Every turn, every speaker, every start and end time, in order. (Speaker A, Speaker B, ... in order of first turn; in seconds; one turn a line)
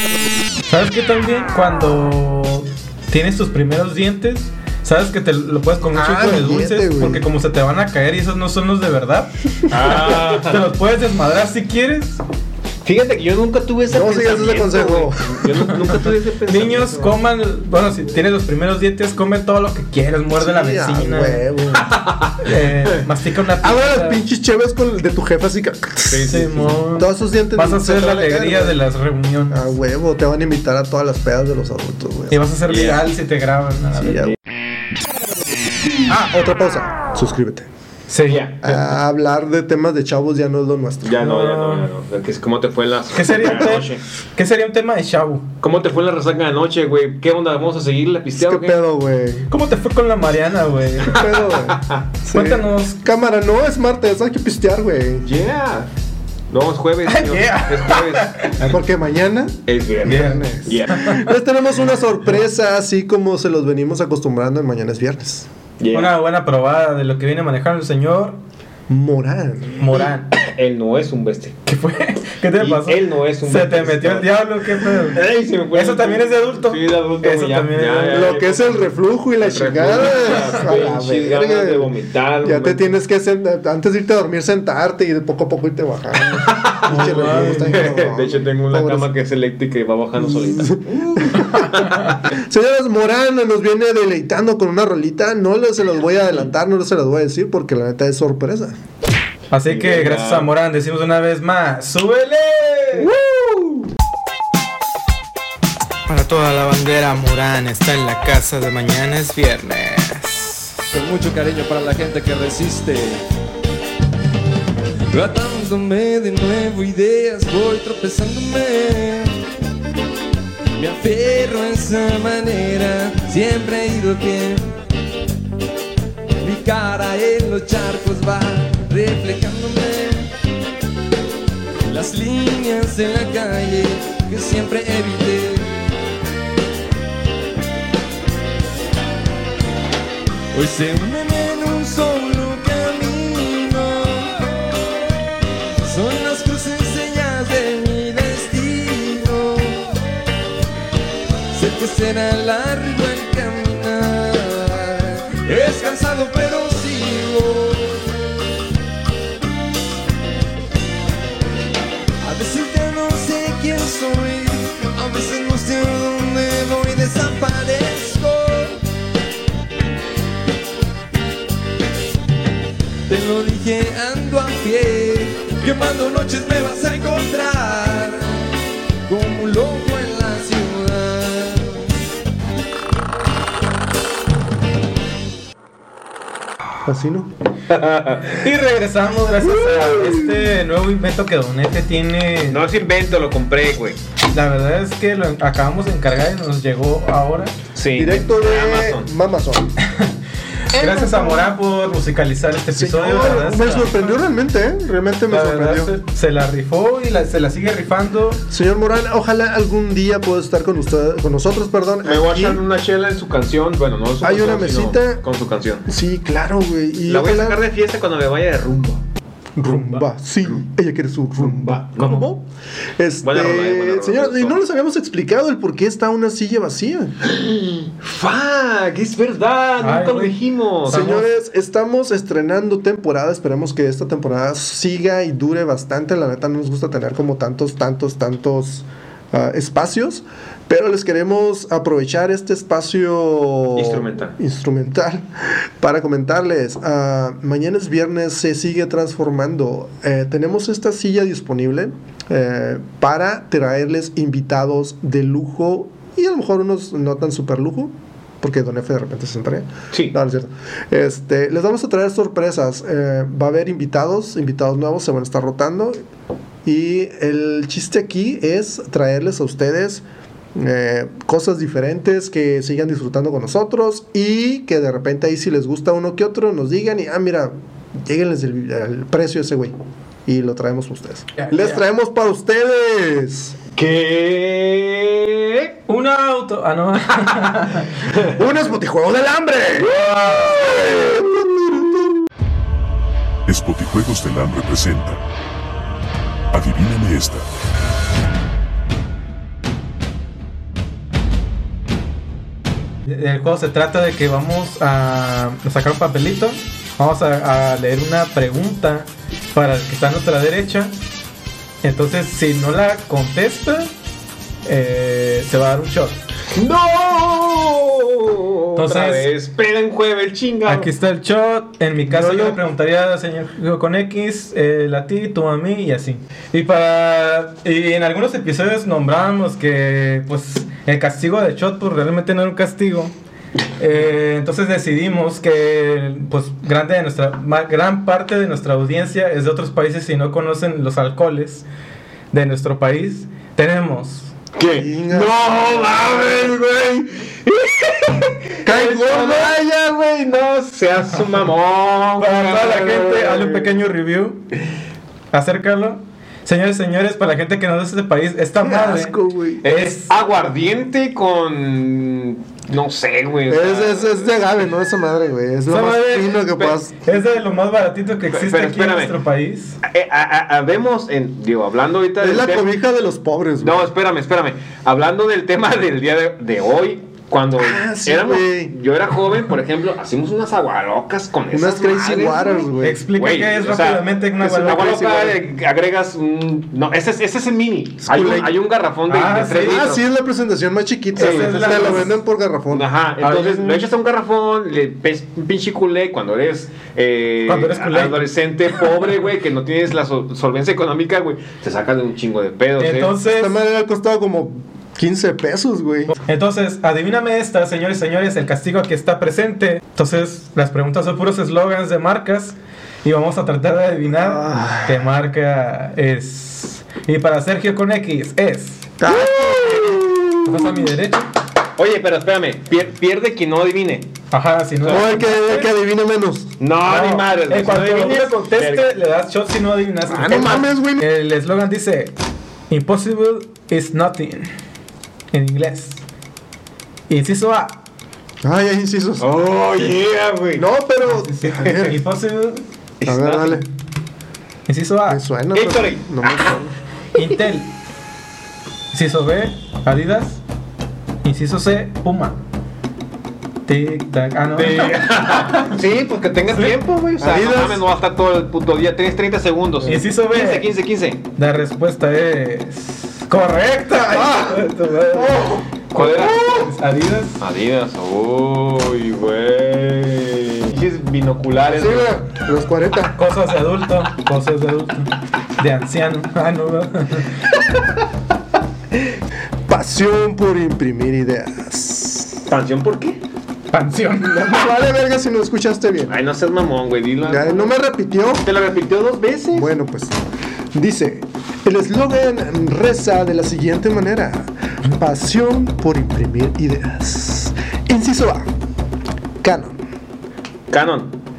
Speaker A: 0.7-12.2
Speaker B: 5.9-7.2
Speaker C: 9.7-10.6
Speaker C: 12.8-17.2
Speaker B: 13.9-15.6
Speaker A: 16.5-21.4
Speaker B: 20.4-21.9
Speaker C: 21.8-23.0
Speaker A: 22.4-24.2
Speaker B: 23.6-26.4
Speaker C: 26.1-26.7
Speaker A: 26.2-29.7
Speaker B: 26.9-28.8
Speaker B: 29.5-32.4
Speaker A: 32.3-34.3
Speaker C: 32.7-33.0
Speaker B: 34.0-34.3
Speaker B: 36.1-37.7
Speaker A: 38.1-38.5
Speaker C: 38.3-38.8
Speaker B: 38.6-41.2
Speaker C: 41.0-44.0
Speaker A: 41.2-41.9
Speaker A: 43.1-45.5
Speaker C: 45.6-48.8
Speaker B: 48.4-49.5
Speaker A: 49.5-51.2
Speaker B: 51.0-55.2
Speaker C: 51.1-52.0
Speaker A: 52.3-53.0
Speaker C: 55.2-55.9
Speaker C: 56.5-58.5
Speaker A: 57.1-58.7
Speaker B: 58.6-65.5
Speaker C: 59.7-61.1
Speaker A: 60.0-61.3
Speaker C: 65.8-66.1
Speaker A: 65.9-68.4
Speaker B: 68.9-69.9
Speaker A: 69.8-70.3
Speaker C: 70.3-71.6
Speaker A: 71.7-78.2
Speaker C: 72.6-74.3
Speaker C: 75.1-83.0
Speaker B: 78.1-81.9
Speaker B: 82.4-89.1
Speaker C: 86.3-92.2
Speaker A: 86.8-87.9
Speaker B: 90.2-98.8
Speaker A: 91.8-92.1
Speaker A: 99.5-103.1
Speaker C: 99.7-100.5
Speaker C: 103.0-103.9
Speaker A: 106.1-110.7
Speaker D: 110.9-113.2
Speaker D: 115.1-119.4
Speaker D: 120.8-124.8
Speaker D: 126.4-130.3
Speaker D: 131.9-135.7
Speaker D: 140.5-144.9
Speaker D: 145.8-149.9
Speaker D: 151.5-158.1
Speaker D: 162.2-168.8
Speaker D: 173.1-178.5
Speaker D: 179.1-181.9
Speaker B: 186.8-187.3
Speaker C: 187.7-188.4
Speaker A: 188.3-192.6
Speaker C: 192.4-194.0
Speaker A: 194.3-197.5
Speaker C: 197.7-199.1
Speaker B: 197.9-199.7
Speaker A: 199.9-200.1
Speaker A: 200.7-204.2
Speaker B: 202.7-205.9
Speaker A: 205.3-208.4
Speaker B: 208.5-212.6
Speaker C: 212.0-215.8
Speaker B: 214.2-215.2
Speaker B: 215.8-217.6
Speaker C: 217.1-219.0
Speaker B: 219.6-222.4
Speaker A: 219.6-220.0
Speaker C: 221.4-222.3
Speaker B: 223.0-227.1
Speaker C: 223.2-224.6
Speaker C: 227.2-231.2
Speaker A: 229.8-230.3
Speaker B: 230.8-266.0
Speaker A: 230.9-231.2
Speaker C: 243.7-244.3
Speaker C: 259.9-260.2
Speaker B: 266.6-270.0
Speaker B: 270.5-279.7
Speaker B: 280.2-283.6
Speaker A: 281.4-281.8
Speaker C: 283.7-285.7
Speaker A: 285.9-288.0
Speaker B: 288.3-290.0
Speaker C: 289.8-290.8
Speaker B: 290.6-291.4
Speaker E: 293.5-295.2
Speaker E: 296.5-297.4
Speaker A: 303.1-310.9
Speaker A: 311.8-313.9
Speaker A: 314.6-316.2
Speaker C: 316.5-320.9
Speaker A: 318.8-319.3
Speaker A: 320.6-333.1
Speaker C: 322.2-322.5
Speaker A: 333.8-341.6
Speaker A: 342.3-344.3
Speaker C: 344.6-353.8
Speaker B: 344.7-345.4
Speaker B: 348.6-349.6
Speaker A: 352.2-354.4
Speaker A: 355.3-360.1
Speaker B: 358.6-359.6
Speaker C: 359.6-364.3
Speaker B: 363.5-367.0
Speaker A: 365.7-369.8
Speaker C: 368.3-369.1
Speaker C: 369.8-372.7
Speaker B: 372.2-373.9
Speaker C: 373.6-390.0
Speaker B: 377.6-378.7
Speaker B: 381.5-383.0
Speaker A: 382.8-385.2
Speaker B: 384.4-385.4
Speaker B: 388.0-388.6
Speaker A: 389.1-389.8
Speaker B: 389.5-392.9
Speaker C: 391.1-392.1
Speaker A: 391.2-392.1
Speaker C: 392.7-403.1
Speaker A: 393.2-393.8
Speaker A: 397.4-398.2
Speaker A: 402.8-403.5
Speaker B: 403.2-406.1
Speaker A: 406.1-418.9
Speaker B: 414.1-415.0
Speaker B: 419.0-420.7
Speaker C: 419.4-419.8
Speaker A: 420.4-421.3
Speaker C: 421.8-424.1
Speaker A: 424.3-425.7
Speaker C: 424.8-425.1
Speaker B: 424.9-426.5
Speaker C: 426.6-428.9
Speaker A: 426.9-432.1
Speaker C: 430.1-430.6
Speaker B: 430.1-431.0
Speaker A: 432.7-434.5
Speaker A: 435.3-436.0
Speaker A: 437.1-437.8
Speaker B: 438.4-439.3
Speaker C: 439.2-440.6
Speaker B: 440.5-442.0
Speaker A: 441.1-442.6
Speaker C: 441.6-441.9
Speaker C: 443.0-443.6
Speaker B: 443.1-443.6
Speaker A: 444.7-445.2
Speaker B: 445.1-446.7
Speaker C: 445.5-446.6
Speaker A: 447.1-447.7
Speaker A: 448.9-450.4
Speaker A: 451.2-452.4
Speaker A: 453.7-455.7
Speaker C: 454.6-461.2
Speaker B: 457.2-457.8
Speaker A: 459.9-460.7
Speaker A: 461.4-467.4
Speaker B: 464.1-464.6
Speaker C: 465.3-466.7
Speaker C: 467.4-472.2
Speaker B: 471.7-473.2
Speaker A: 473.1-477.3
Speaker B: 479.7-482.5
Speaker C: 482.5-483.2
Speaker A: 483.7-484.6
Speaker B: 484.2-486.1
Speaker C: 486.1-487.8
Speaker B: 487.2-488.5
Speaker C: 488.4-489.7
Speaker B: 489.5-490.2
Speaker B: 490.7-498.5
Speaker B: 499.4-499.8
Speaker C: 500.7-501.2